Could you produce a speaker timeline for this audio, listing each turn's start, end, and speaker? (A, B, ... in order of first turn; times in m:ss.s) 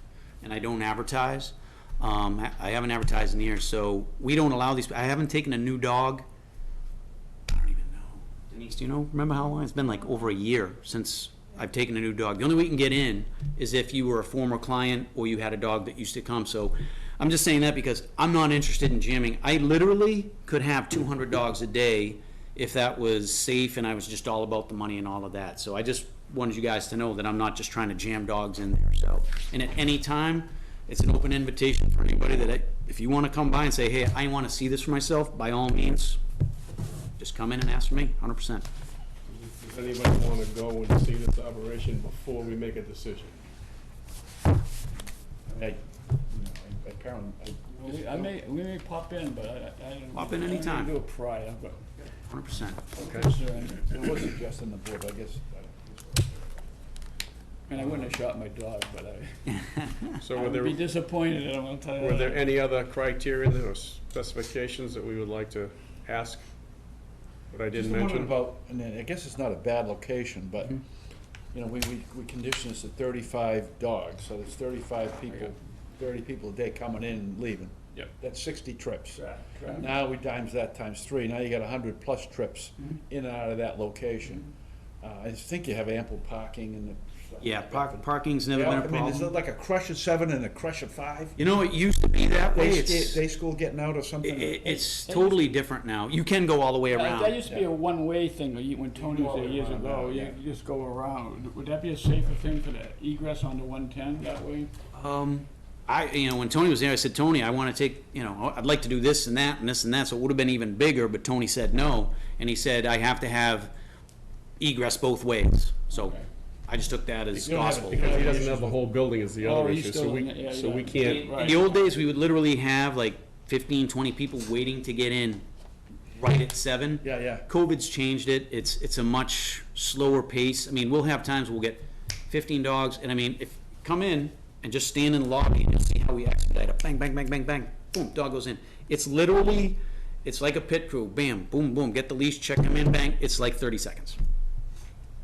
0:00.4-0:06.2 A
0:07.5-0:36.2 A
0:37.2-0:38.6 A
0:39.6-0:43.3 B
0:45.4-0:48.4 C
0:47.8-0:51.9 D
0:50.1-0:50.9 A
0:52.3-0:52.9 A
0:52.8-0:54.3 D
0:53.0-0:53.3 B
0:53.8-0:56.7 C
0:57.7-0:59.6 D
0:57.8-0:58.1 C
1:00.2-1:00.8 B
1:00.3-1:02.4 D
1:02.0-1:06.4 B
1:07.5-1:08.4 B
1:07.7-1:10.8 C
1:11.5-1:19.2 C
1:19.2-1:19.9 D
1:19.7-1:24.5 C
1:25.0-1:31.4 C
1:27.4-1:29.3 A
1:31.4-1:33.2 A
1:32.5-1:34.9 C
1:34.2-1:37.4 A
1:35.0-1:35.4 D
1:36.9-1:44.7 D
1:38.9-1:40.4 C
1:44.9-1:53.7 A
1:54.6-1:56.2 A
1:55.9-1:56.2 D
1:56.7-1:58.2 A
1:57.3-1:58.8 C
1:57.9-2:01.3 B
1:58.0-1:58.4 D
1:59.4-2:01.7 D
2:01.3-2:05.4 A
2:06.2-2:24.2 A
2:07.0-2:07.5 C